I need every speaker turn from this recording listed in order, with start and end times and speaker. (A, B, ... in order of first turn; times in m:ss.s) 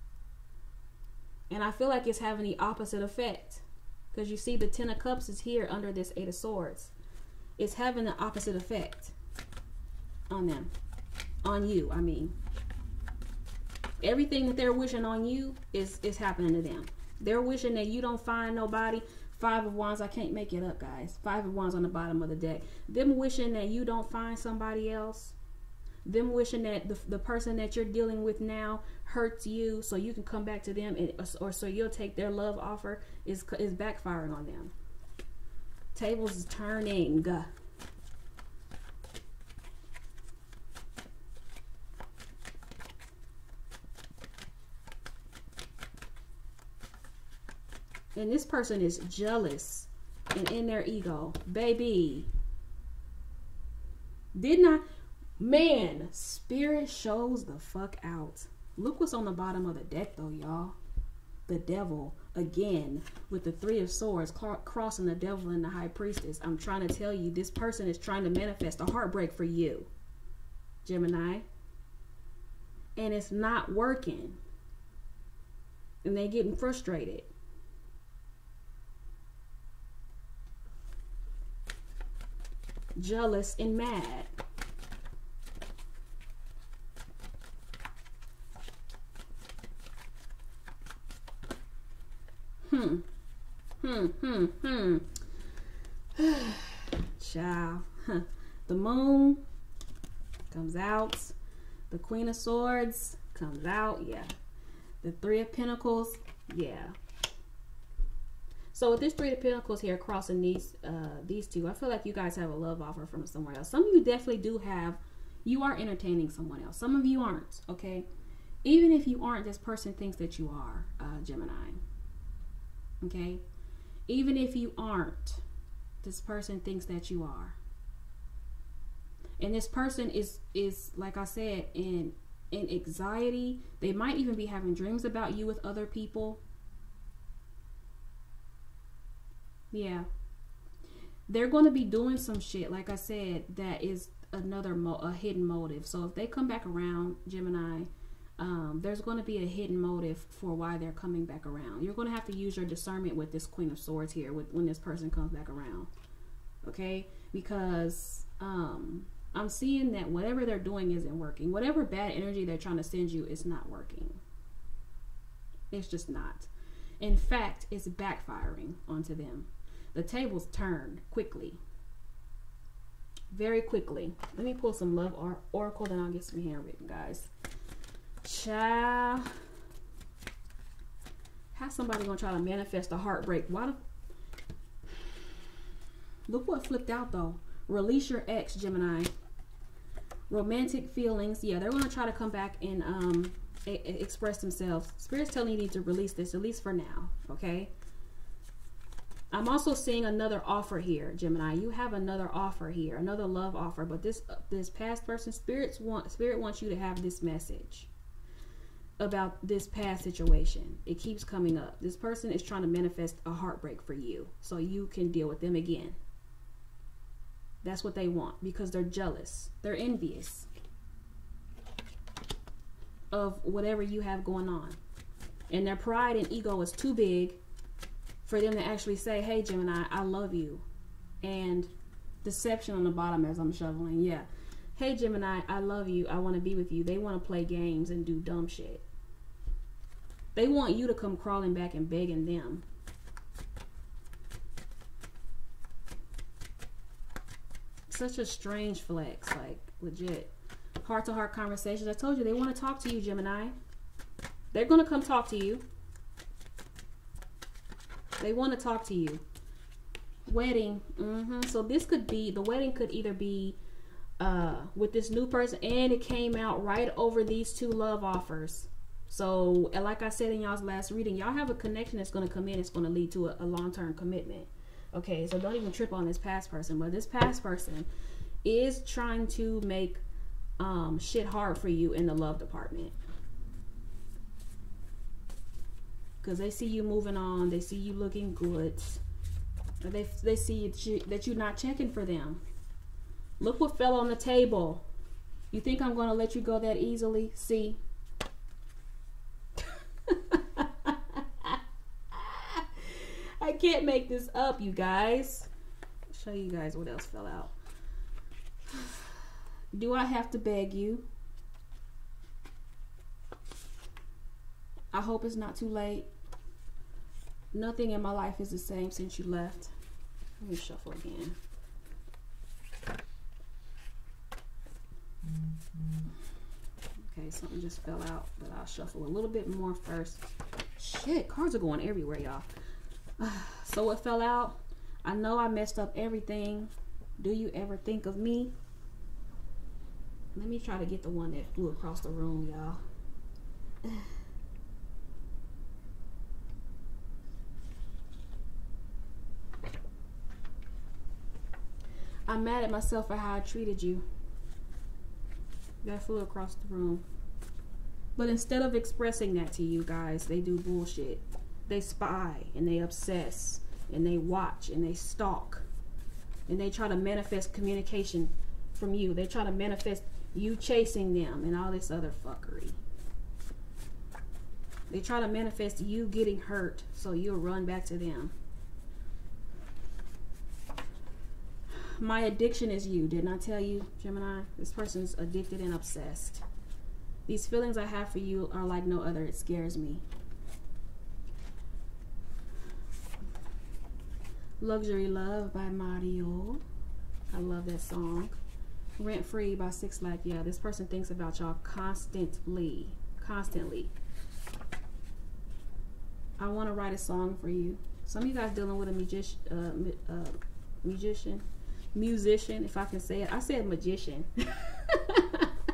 0:01.5-0:06.9 A
0:07.6-0:09.1 A
0:10.3-0:10.7 A
0:11.4-0:12.3 A
0:14.0-0:25.3 A
0:26.0-0:34.7 A
0:35.9-0:37.5 A
0:48.1-0:52.3 A
0:54.3-0:54.8 A
0:55.4-1:00.8 A
1:01.5-1:09.9 A
1:10.8-1:11.4 A
1:13.0-1:14.4 A
1:16.0-1:17.3 A
1:23.0-1:24.3 A
1:32.6-1:33.0 A
1:33.8-1:35.1 A
1:36.1-1:39.4 A
1:40.5-1:41.3 A
1:41.9-1:44.3 A
1:45.0-1:46.9 A
1:48.7-1:58.1 A
1:58.6-2:01.8 A
2:03.0-2:03.4 A
2:04.1-2:05.4 A
2:06.0-2:07.6 A
2:09.4-2:16.4 A
2:19.7-2:20.1 A
2:21.3-2:35.9 A
2:36.6-2:44.2 A
2:45.7-2:46.5 A
2:47.0-2:51.6 A
2:53.3-2:57.3 A
2:58.2-2:59.3 A
3:01.5-3:03.8 A
3:06.3-3:09.1 A
3:10.3-3:17.7 A
3:19.3-3:27.9 A
3:29.0-3:36.0 A
3:37.6-3:40.5 A
3:43.1-3:44.8 A
3:45.5-3:47.4 A
3:48.2-3:50.6 A
3:51.2-3:51.7 A
3:52.2-3:58.8 A
4:00.3-4:02.6 A
4:07.9-4:10.3 A
4:10.8-4:13.5 A
4:14.5-4:15.6 A
4:18.2-4:19.2 A
4:20.3-4:23.6 A
4:24.2-4:37.9 A
4:38.4-4:40.0 A
4:40.6-4:42.9 A
4:46.2-4:49.0 A
4:49.8-4:52.4 A
4:53.4-4:54.8 A
4:55.5-4:57.8 A
5:00.1-5:01.6 A
5:02.1-5:05.5 A
5:06.1-5:07.5 A
5:08.7-5:09.0 A
5:09.7-5:11.1 A
5:14.9-5:16.1 A
5:17.5-5:19.7 A
5:20.4-5:21.4 A
5:27.0-5:30.2 A
5:30.8-5:32.5 A
5:33.2-5:38.5 A
5:40.3-5:42.8 A
5:43.8-5:44.1 A
5:52.3-5:54.0 A
5:55.8-5:57.0 A
5:58.2-6:05.7 A
6:06.5-6:12.8 A
6:14.9-6:18.3 A
6:21.7-6:26.4 A
6:27.3-6:30.0 A
6:34.6-6:36.6 A
6:37.3-6:38.3 A
6:39.0-6:43.9 A
6:46.4-6:55.5 A